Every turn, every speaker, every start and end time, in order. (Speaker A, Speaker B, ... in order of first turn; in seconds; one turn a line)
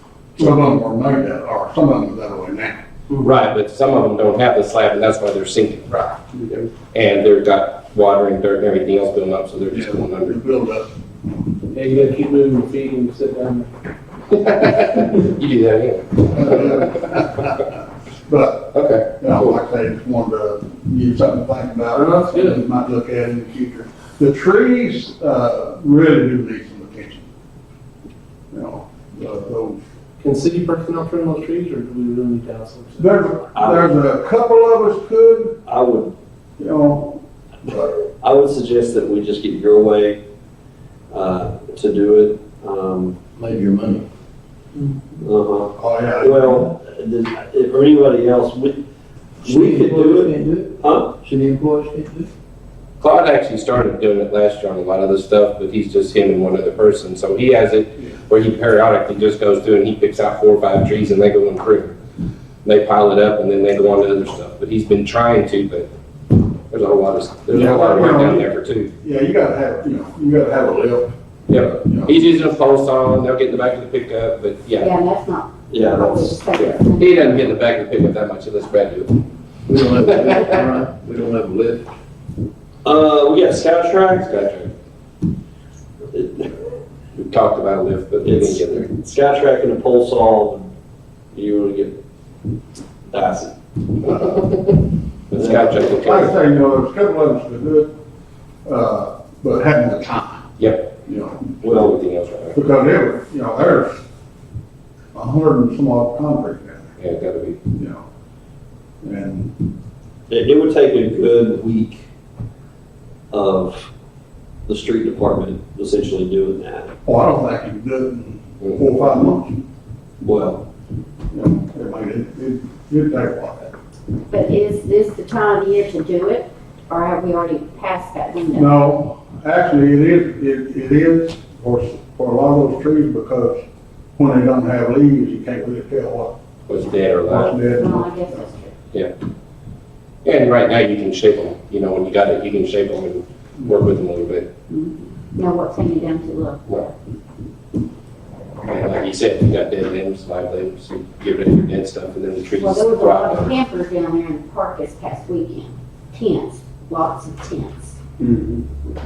Speaker A: 0.3-2.8
Speaker B: 3.2-10.4
Speaker A: 9.7-10.9
Speaker C: 11.7-13.7
Speaker B: 14.3-17.2
Speaker A: 16.3-17.7
Speaker A: 18.3-27.3
Speaker B: 18.7-19.6
Speaker C: 21.9-22.6
Speaker A: 28.5-29.8
Speaker C: 30.2-33.4
Speaker A: 33.0-35.6
Speaker D: 33.5-33.9
Speaker D: 35.6-36.1
Speaker A: 36.6-38.0
Speaker D: 38.2-40.2
Speaker D: 41.1-43.2
Speaker E: 43.4-44.0
Speaker D: 45.2-48.8
Speaker A: 45.7-46.6
Speaker D: 49.4-51.1
Speaker E: 49.4-52.3
Speaker B: 53.0-61.9
Speaker B: 62.6-65.9
Speaker B: 66.7-68.9
Speaker A: 67.5-68.5
Speaker A: 69.0-71.1
Speaker B: 71.5-74.9
Speaker A: 71.7-72.2
Speaker F: 74.8-77.5
Speaker D: 75.7-76.4
Speaker B: 76.5-79.2
Speaker E: 79.7-81.9
Speaker D: 82.8-84.5
Speaker B: 84.2-84.7
Speaker D: 86.1-86.5
Speaker B: 87.1-88.9
Speaker D: 88.2-90.7
Speaker D: 91.3-92.0
Speaker D: 93.1-93.5
Speaker B: 95.3-96.4
Speaker D: 95.3-95.9
Speaker A: 95.9-97.9
Speaker A: 98.6-100.5
Speaker B: 100.6-100.9
Speaker A: 101.0-101.5
Speaker D: 101.6-102.0
Speaker B: 101.6-102.6
Speaker A: 102.5-104.0
Speaker A: 105.1-106.9
Speaker B: 107.0-107.6
Speaker A: 107.7-108.0
Speaker A: 109.0-109.6
Speaker D: 110.3-112.0
Speaker D: 113.3-113.9
Speaker D: 114.7-116.9
Speaker A: 117.0-119.6
Speaker D: 120.2-120.6
Speaker A: 121.3-123.7
Speaker F: 124.3-128.7
Speaker A: 128.5-133.6
Speaker A: 134.2-136.3
Speaker B: 136.7-137.6
Speaker A: 137.2-138.4
Speaker F: 137.8-138.7
Speaker B: 140.2-144.5
Speaker F: 144.7-146.9
Speaker B: 148.6-153.5
Speaker F: 152.6-158.0